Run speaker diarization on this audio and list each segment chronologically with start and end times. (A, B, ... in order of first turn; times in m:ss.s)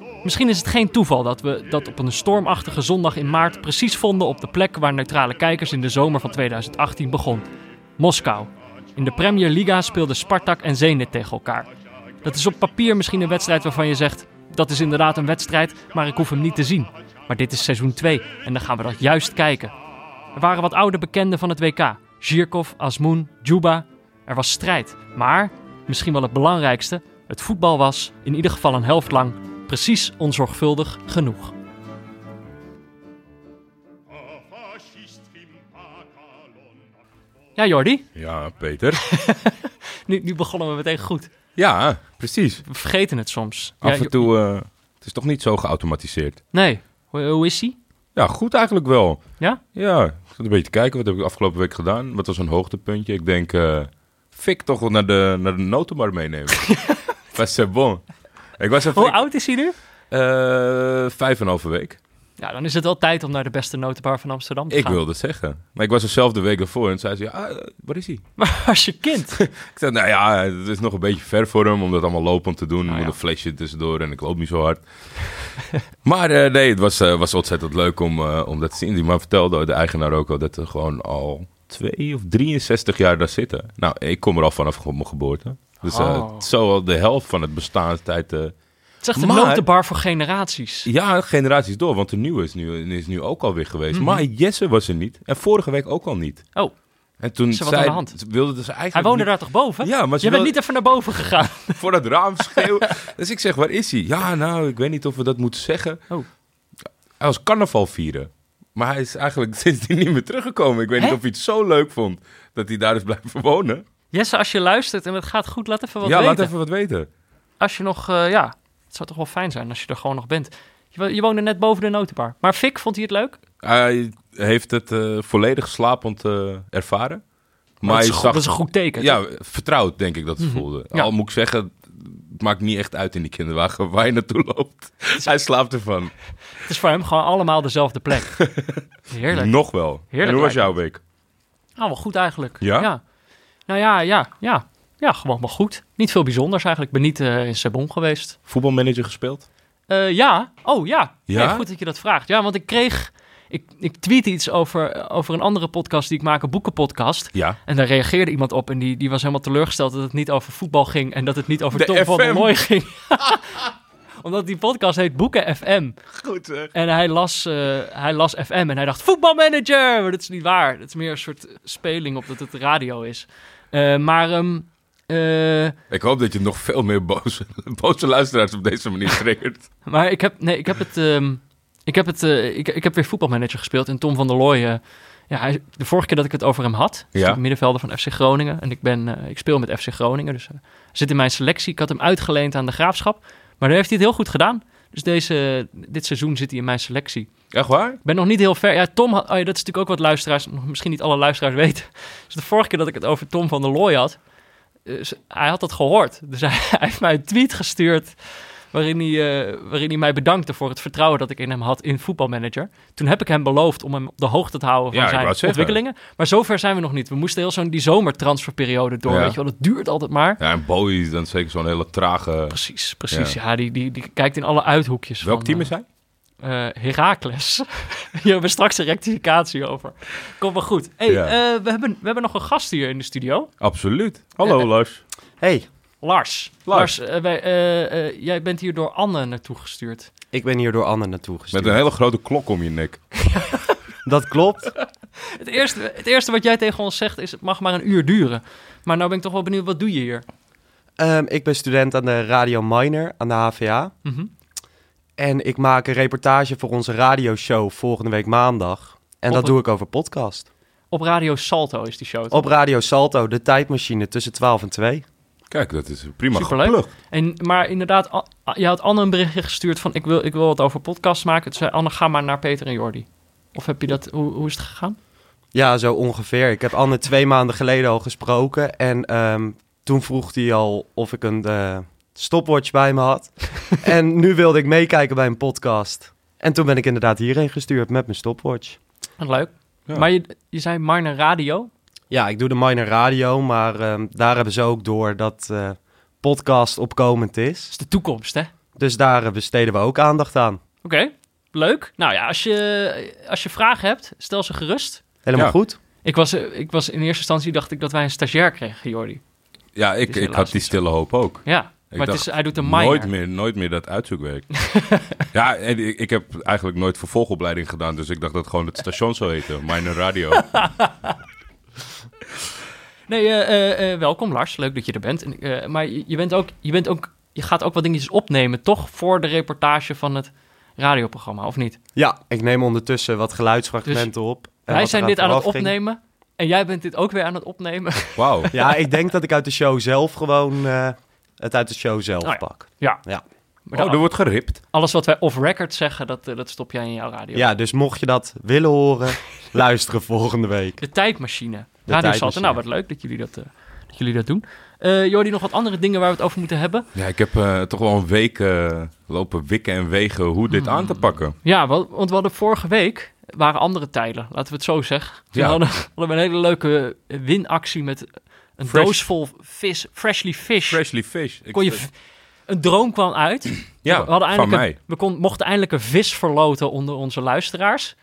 0:00.2-0:07.5 A
0:08.0-0:11.7 A
0:12.2-0:19.7 A
0:20.3-0:31.5 A
0:37.6-0:38.0 A
0:38.2-0:39.0 B
0:39.0-0:41.3 A
0:41.6-0:42.6 B
0:42.6-0:44.3 A
0:43.8-0:46.4 B
0:46.5-0:47.8 A
0:48.2-0:49.2 B
0:49.7-0:58.0 B
0:56.6-0:57.1 A
0:58.6-0:59.2 B
0:58.9-0:59.7 A
1:00.1-1:02.0 B
1:02.4-1:05.0 A
1:04.7-1:08.2 B
1:08.4-1:09.4 A
1:09.3-1:15.4 B
1:12.8-1:13.2 A
1:16.0-1:28.5 B
1:25.8-1:26.5 A
1:29.0-1:30.9 A
1:29.2-1:29.6 B
1:30.8-1:36.5 B
1:33.9-1:34.2 A
1:37.2-1:39.3 B
1:37.5-1:38.1 A
1:38.9-1:41.8 A
1:39.8-1:40.6 B
1:41.8-1:46.0 B
1:42.4-1:42.8 A
1:47.2-1:53.8 B
1:54.1-1:56.5 A
1:56.0-1:57.1 B
1:57.6-2:03.4 A
2:03.6-2:07.2 B
2:07.8-2:16.1 B
2:07.8-2:09.2 A
2:10.4-2:11.1 A
2:16.6-2:18.3 A
2:18.3-2:21.0 B
2:19.1-2:19.5 A
2:20.1-2:20.7 A
2:21.8-2:23.0 A
2:22.6-2:22.9 B
2:23.7-2:28.4 A
2:28.5-2:29.4 B
2:29.9-2:43.6 A
2:31.3-2:31.6 B
2:41.7-2:42.5 B
2:44.2-2:46.0 A
2:46.1-2:46.7 B
2:46.7-2:55.8 A
2:55.9-2:59.6 B
2:59.8-3:17.3 A
3:07.1-3:07.4 B
3:17.5-3:18.0 B
3:18.0-3:24.2 A
3:24.8-3:40.4 A
3:34.9-3:35.8 B
3:39.1-3:39.4 B
3:40.4-3:42.6 B
3:42.5-3:45.7 A
3:43.1-3:43.4 B
3:45.2-3:45.8 B
3:46.4-3:53.5 A
3:51.1-3:51.3 B
3:53.6-3:55.0 B
3:55.4-3:55.7 C
3:56.0-4:00.1 A
3:56.7-3:56.9 B
4:00.3-4:01.8 C
4:01.5-4:03.0 B
4:03.2-4:03.8 A
4:04.0-4:04.7 C
4:05.3-4:10.2 A
4:11.0-4:13.9 C
4:14.0-4:14.3 A
4:15.2-4:20.5 C
4:19.3-4:19.6 A
4:20.9-4:22.4 A
4:22.3-4:25.0 C
4:25.5-4:26.9 B
4:26.3-4:35.0 A
4:35.5-4:48.8 C
4:49.2-4:51.7 A
4:52.1-4:57.7 C
4:57.7-4:58.5 A
4:58.8-5:00.6 C
5:00.8-5:05.0 A
5:05.2-5:05.8 C
5:06.0-5:09.2 A
5:09.7-5:14.6 B
5:10.1-5:10.8 A
5:11.4-5:13.1 A
5:14.6-5:15.2 A
5:15.3-5:20.7 B
5:20.4-5:20.9 A
5:23.1-5:31.8 A
5:32.0-5:35.7 C
5:34.6-5:38.7 A
5:38.2-5:38.5 B
5:38.5-5:43.2 C
5:42.2-5:43.0 A
5:43.7-5:44.0 A
5:43.7-5:44.6 B
5:44.7-5:47.5 A
5:47.3-5:50.8 C
5:50.8-5:56.8 A
5:51.9-5:52.6 C
5:56.9-6:01.3 B
6:00.5-6:10.8 A
6:05.3-6:05.6 B
6:08.7-6:09.0 B
6:10.7-6:11.8 B
6:11.5-6:11.9 A
6:12.5-6:17.9 A
6:13.8-6:14.8 B